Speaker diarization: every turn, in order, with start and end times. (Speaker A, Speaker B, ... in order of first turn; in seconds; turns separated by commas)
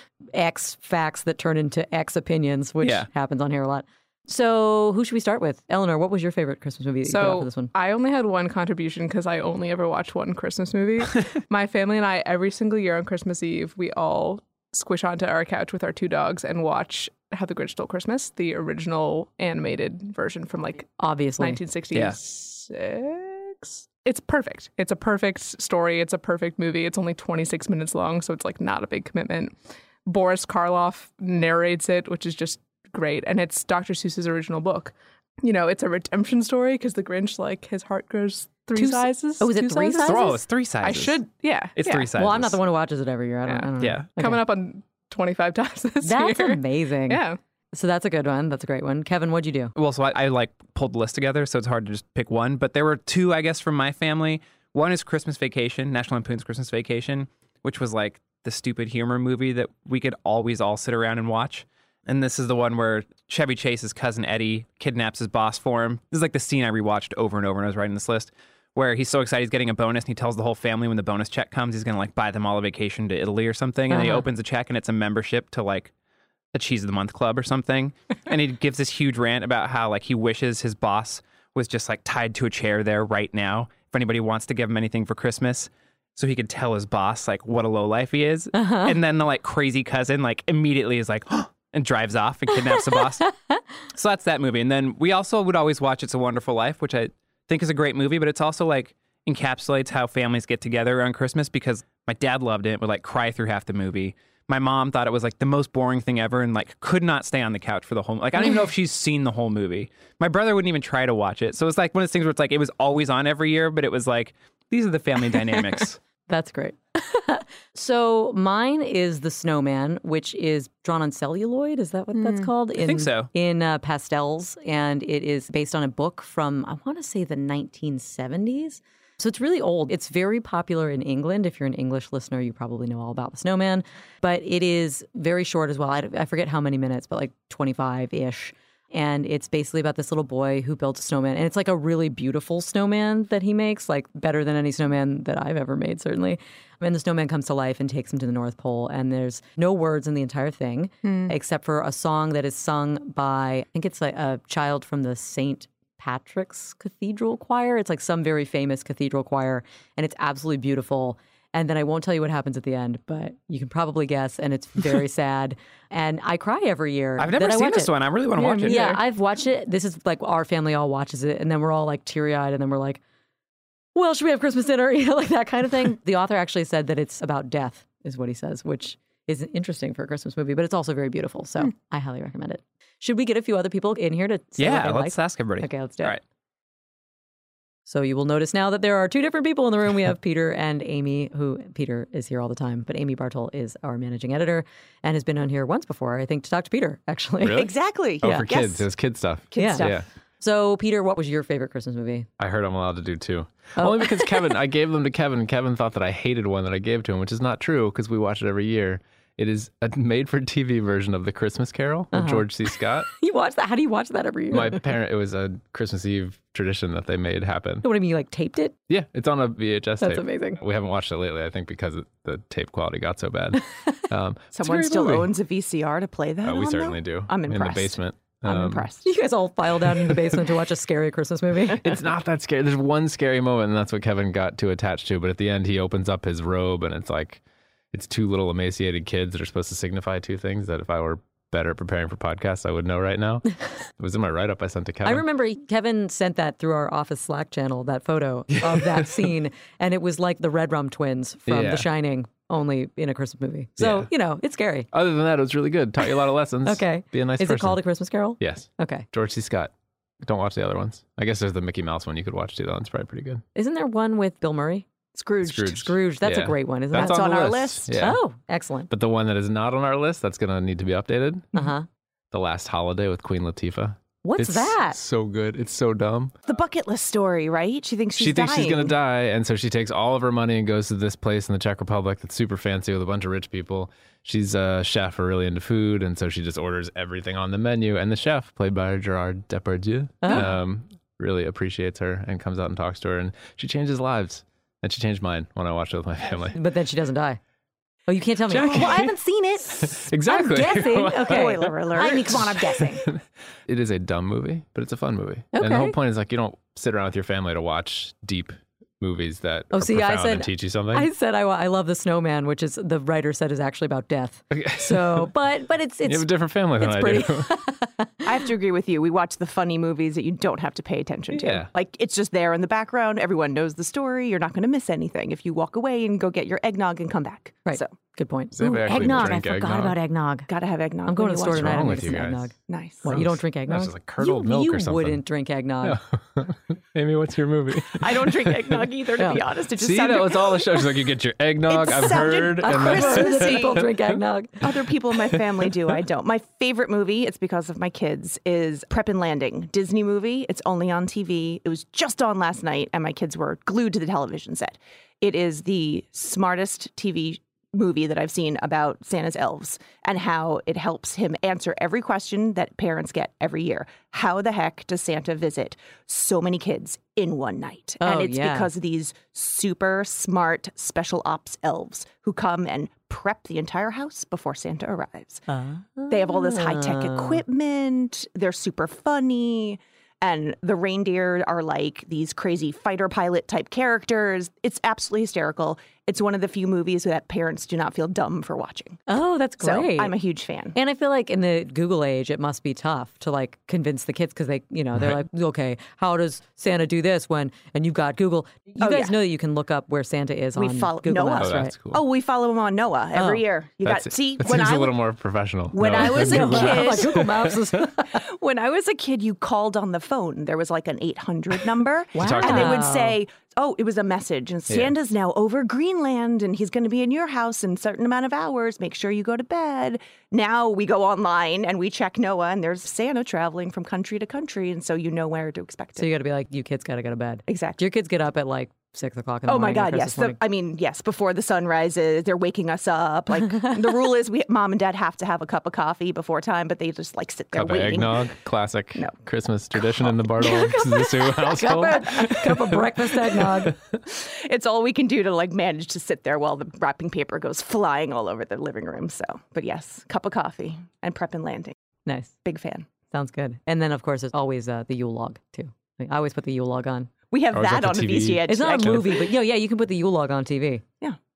Speaker A: 0.3-7.7, Speaker B: 2.8-3.1, Speaker C: 7.0-40.2, Speaker A: 21.0-21.6, Speaker B: 21.9-22.2, Speaker A: 38.7-40.4, Speaker B: 40.0-41.2, Speaker C: 40.8-42.1, Speaker B: 41.7-42.6, Speaker A: 42.1-44.4, Speaker C: 43.5-47.4, Speaker B: 43.8-44.1, Speaker A: 46.0-49.7, Speaker B: 49.8-75.9, Speaker A: 73.9-74.3, Speaker B: 76.5-93.3, Speaker A: 88.5-89.0, Speaker A: 92.9-93.6, Speaker B: 93.9-116.0, Speaker A: 116.3-167.9, Speaker C: 122.1-122.5, Speaker B: 122.8-123.3, Speaker C: 151.0-151.3, Speaker B: 167.2-169.0, Speaker C: 168.3-169.0, Speaker A: 168.5-173.0, Speaker A: 173.9-186.2, Speaker B: 184.6-186.2, Speaker A: 187.9-197.7, Speaker D: 197.4-200.0, Speaker E: 197.5-198.8, Speaker A: 198.2-198.5, Speaker E: 199.5-200.0, Speaker A: 199.6-199.9, Speaker A: 200.4-202.3, Speaker D: 202.4-213.1, Speaker A: 203.8-204.3, Speaker A: 212.1-212.5, Speaker A: 213.0-214.8, Speaker D: 214.5-217.9, Speaker A: 217.8-218.8, Speaker D: 218.9-225.3, Speaker A: 220.0-220.6, Speaker E: 224.5-229.1, Speaker D: 226.4-228.9, Speaker A: 229.0-231.9, Speaker D: 229.9-230.4, Speaker D: 231.8-237.4, Speaker D: 237.9-245.2, Speaker A: 245.0-254.9, Speaker D: 248.6-249.3, Speaker D: 251.5-251.9, Speaker D: 253.8-254.1, Speaker D: 254.9-257.8, Speaker A: 256.6-259.1, Speaker D: 258.4-263.4, Speaker A: 263.5-264.9, Speaker E: 265.1-265.8, Speaker D: 265.4-268.2, Speaker A: 265.7-267.4, Speaker E: 266.9-268.1, Speaker A: 267.9-268.9, Speaker D: 268.9-271.6, Speaker A: 271.5-271.9, Speaker D: 272.3-276.4, Speaker A: 274.2-275.0, Speaker E: 276.5-278.9, Speaker D: 278.1-296.6, Speaker A: 290.2-290.5, Speaker A: 296.5-297.4, Speaker A: 298.1-303.1, Speaker D: 298.5-299.1, Speaker E: 298.7-299.1, Speaker D: 299.8-311.1, Speaker E: 301.2-302.5, Speaker A: 305.5-305.9, Speaker A: 309.7-318.3, Speaker D: 314.5-315.3, Speaker D: 316.1-317.5, Speaker E: 318.2-327.9, Speaker D: 321.3-321.7, Speaker A: 327.6-330.5, Speaker D: 328.5-330.0, Speaker E: 328.9-329.4, Speaker E: 330.5-333.2, Speaker A: 331.1-336.0, Speaker D: 331.5-332.5, Speaker D: 333.1-335.2, Speaker D: 335.8-344.0, Speaker E: 337.9-341.0, Speaker E: 341.6-343.9, Speaker A: 342.6-344.6, Speaker E: 344.6-375.4, Speaker D: 345.3-345.7, Speaker A: 368.0-368.7, Speaker A: 375.5-377.4, Speaker E: 376.1-389.1, Speaker A: 389.1-390.1, Speaker E: 389.6-390.8, Speaker A: 390.7-401.7, Speaker D: 394.9-395.2, Speaker E: 398.8-399.1, Speaker E: 400.6-405.0, Speaker D: 401.4-402.0, Speaker A: 403.1-403.4, Speaker D: 403.8-407.6, Speaker E: 405.7-407.5, Speaker A: 405.9-408.2, Speaker E: 408.1-426.1, Speaker A: 412.1-413.2, Speaker D: 412.2-412.9, Speaker D: 414.7-414.9, Speaker A: 426.0-430.4, Speaker E: 427.5-427.8, Speaker E: 429.5-438.3, Speaker D: 437.5-443.8, Speaker E: 439.9-441.1, Speaker A: 440.4-443.7, Speaker E: 444.0-451.8, Speaker A: 452.1-452.4, Speaker E: 452.4-452.9, Speaker A: 453.1-457.1, Speaker E: 457.3-459.2, Speaker D: 457.5-459.2, Speaker A: 458.5-460.8